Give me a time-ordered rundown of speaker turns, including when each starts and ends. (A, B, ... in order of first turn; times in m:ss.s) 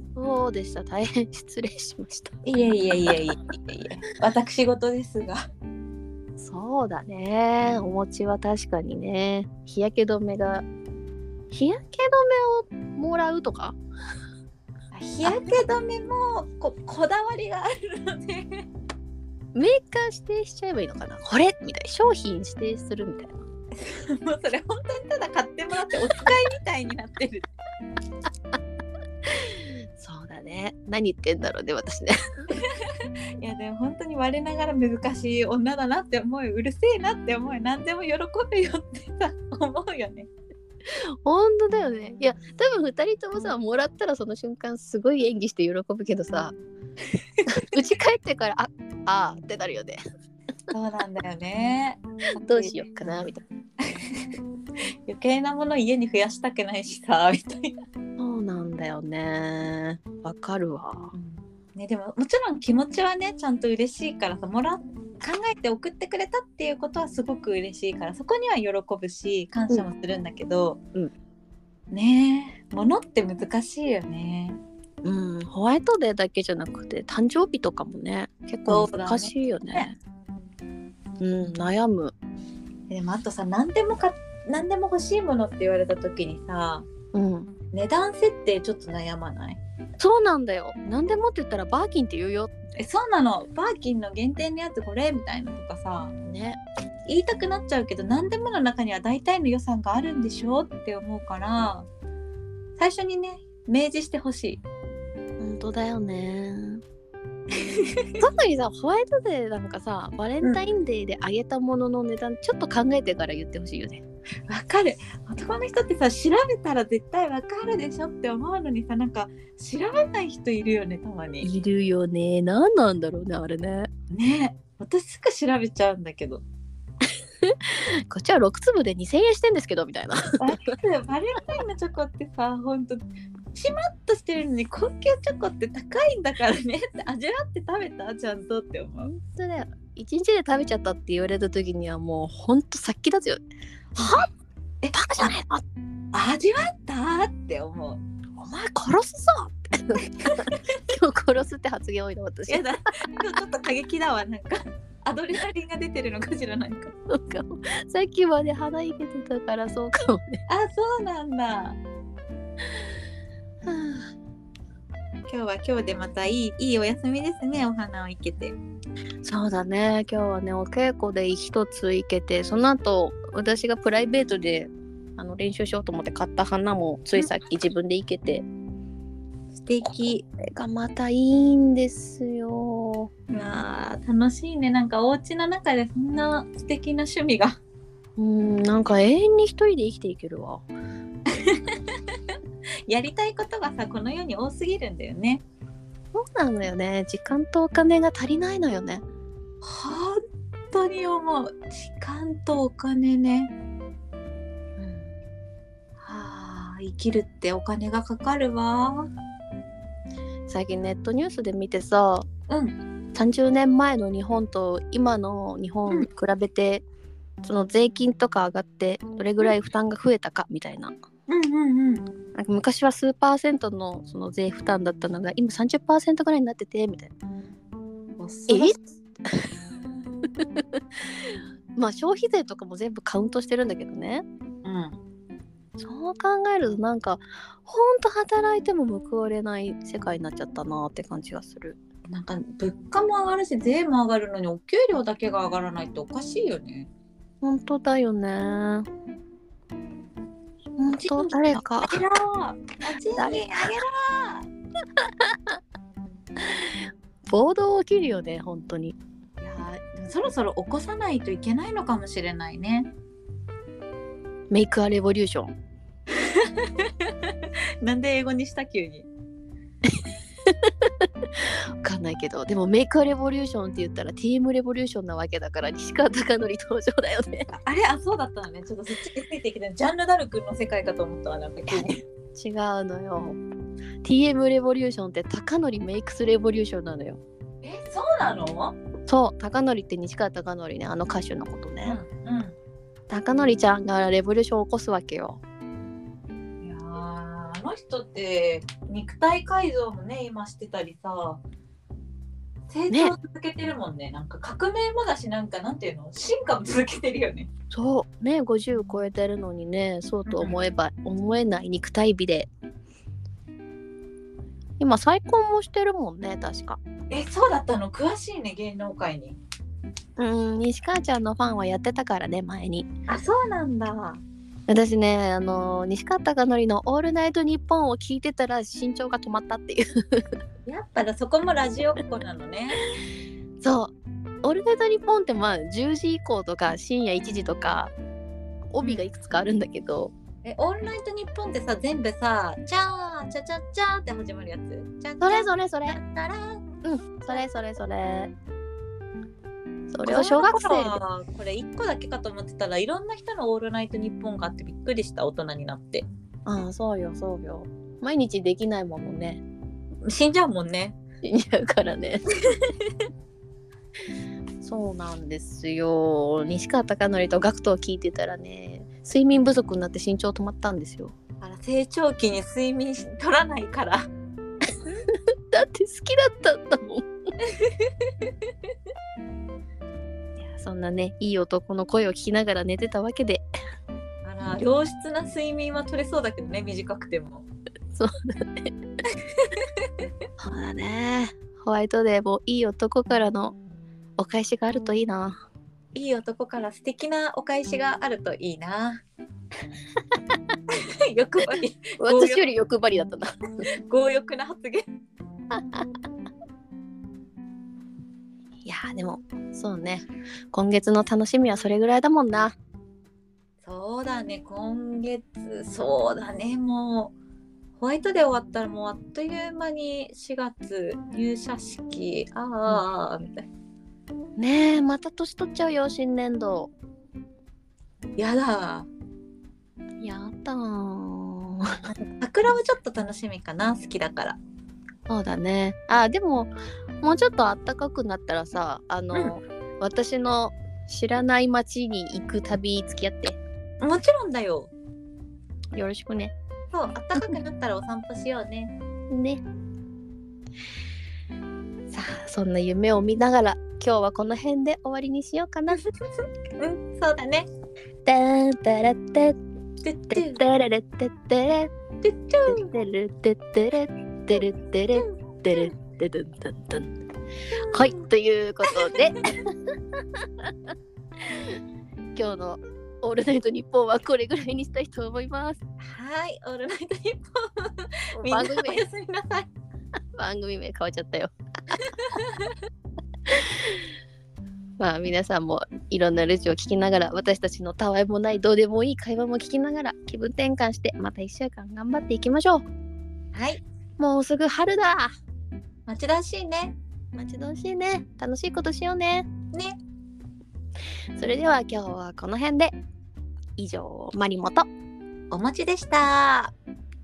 0:00.2-0:02.4 A
0:02.4-0:05.4 B
0:06.4-0:10.6 A
0:11.5-0:13.8 A
0:14.9-0:18.6 B
0:19.5-0:23.4 A
0:23.8-0:27.5 B
0:29.3-0:32.1 A
0:33.4-0:40.3 B
0:40.9-0:46.6 A
0:47.5-0:50.0 A
0:50.7-0:53.3 B
0:52.4-0:53.4 A
0:53.9-0:54.2 B
0:55.1-0:57.8 B
0:58.2-1:01.2 A
1:01.2-1:10.8 B
1:11.9-1:14.6 B
1:15.0-1:20.0 A
1:18.7-1:19.9 B
1:21.2-1:22.2 A
1:22.9-1:26.9 B
1:27.1-1:27.5 A
1:27.7-1:29.6 B
1:30.0-1:32.5 A
1:32.8-1:36.1 B
1:36.2-1:36.6 A
1:37.1-1:41.9 B
1:42.8-1:44.6 B
1:45.4-1:46.8 A
1:48.0-1:48.2 B
1:48.2-1:54.0 A
1:54.5-2:01.5 B
2:01.4-2:03.9 A
2:04.1-2:06.4 B
2:07.4-2:10.7 A
2:10.4-2:19.1 B
2:19.0-2:23.4 A
2:24.0-2:24.3 B
2:24.0-2:24.3 A
2:24.8-2:25.3 B
2:24.9-2:25.6 A
2:26.1-2:28.0 B
2:28.4-2:32.7 A
2:32.5-2:36.9 B
2:37.1-2:40.4 A
2:40.5-2:41.8 B
2:43.7-2:44.1 A
2:45.3-2:48.6 B
2:49.2-2:58.5 A
2:59.5-3:00.2 B
2:59.8-3:03.1 A
3:03.3-3:07.6 B
3:08.2-3:10.7 A
3:11.4-3:11.8 B
3:12.9-3:15.4 B
3:16.1-3:19.0 A
3:19.6-3:20.2 B
3:20.7-3:23.5 B
3:24.8-3:25.1 A
3:26.0-3:29.1 B
3:30.5-3:32.3 A
3:32.5-3:32.8 B
3:33.2-3:36.8 A
3:37.4-3:40.9 A
3:41.3-3:42.0 B
3:42.4-3:47.1 A
3:48.2-3:48.8 B
3:48.5-3:48.8 A
3:49.3-3:49.5 A
3:50.4-3:54.2 A
3:54.6-3:55.0 B
3:55.8-4:01.8 A
4:02.1-4:06.9 B
4:07.4-4:08.9 A
4:10.8-4:12.0 A
4:10.9-4:14.5 B
4:13.2-4:13.7 A
4:15.0-4:15.4 A
4:16.5-4:19.0 A
4:19.4-4:22.9 B
4:24.5-4:25.6 A
4:26.2-4:29.1 B
4:30.5-4:37.5 A
4:37.5-4:42.0 B
4:41.7-4:43.4 A
4:44.0-4:47.2 A
4:47.6-4:48.8 B
4:49.1-4:52.0 A
4:51.8-4:52.6 B
4:53.1-4:55.4 A
4:56.6-5:01.4 B
5:02.7-5:07.5 B
5:07.7-5:12.5 A
5:10.3-5:10.6 B
5:14.8-5:16.8 A
5:17.1-5:19.4 B
5:20.2-5:22.9 A
5:23.1-5:24.2 B
5:24.7-5:30.3 A
5:30.7-5:32.8 B
5:33.6-5:37.9 A
5:38.7-5:40.1 A
5:40.4-5:46.6 B
5:45.2-5:46.0 A
5:46.8-5:48.3 A
5:49.9-5:51.0 A
5:50.0-5:56.1 B
5:56.5-5:59.4 A
6:00.1-6:01.0 B
6:01.2-6:02.3 A
6:04.6-6:11.2 A
6:11.4-6:14.1 B
6:14.8-6:17.1 A
6:17.5-6:18.1 B
6:20.4-6:23.4 A
6:24.2-6:27.5 B
6:27.9-6:28.7 A
6:30.4-6:33.6 A
6:34.2-6:35.4 A
6:35.9-6:39.0 B
6:40.7-6:42.5 B
6:42.0-6:43.4 A
6:43.9-6:44.8 B
6:45.5-6:45.8 A
6:48.6-6:52.6 A
6:53.6-6:57.1 B
6:57.8-7:03.4 B
7:04.4-7:06.7 A
7:08.2-7:08.9 B
7:10.0-7:11.8 A
7:11.8-7:14.4 B
7:15.1-7:23.4 A
7:23.8-7:24.7 B
7:25.7-7:26.3 A
7:26.7-7:28.7 B
7:29.1-7:29.4 A
7:31.9-7:35.8 A
7:36.6-7:37.5 B
7:38.0-7:39.4 A
7:39.8-7:40.4 B
7:40.1-7:41.7 A
7:42.0-7:42.6 B
7:42.5-7:46.9 A
7:45.0-7:45.7 B
7:47.6-7:48.0 B
7:47.7-7:50.5 A
7:51.2-7:51.6 A
7:52.2-7:55.6 A
7:55.8-7:59.5 B
7:58.2-7:58.8 A
8:00.2-8:01.3 A
8:02.1-8:02.5 B
8:03.3-8:03.8 A
8:04.8-8:12.6 A
8:13.3-8:13.6 B
8:14.0-8:15.1 A
8:15.9-8:16.8 B
8:17.1-8:19.3 A
8:21.2-8:22.8 A
8:23.6-8:24.7 A
8:25.3-8:26.5 B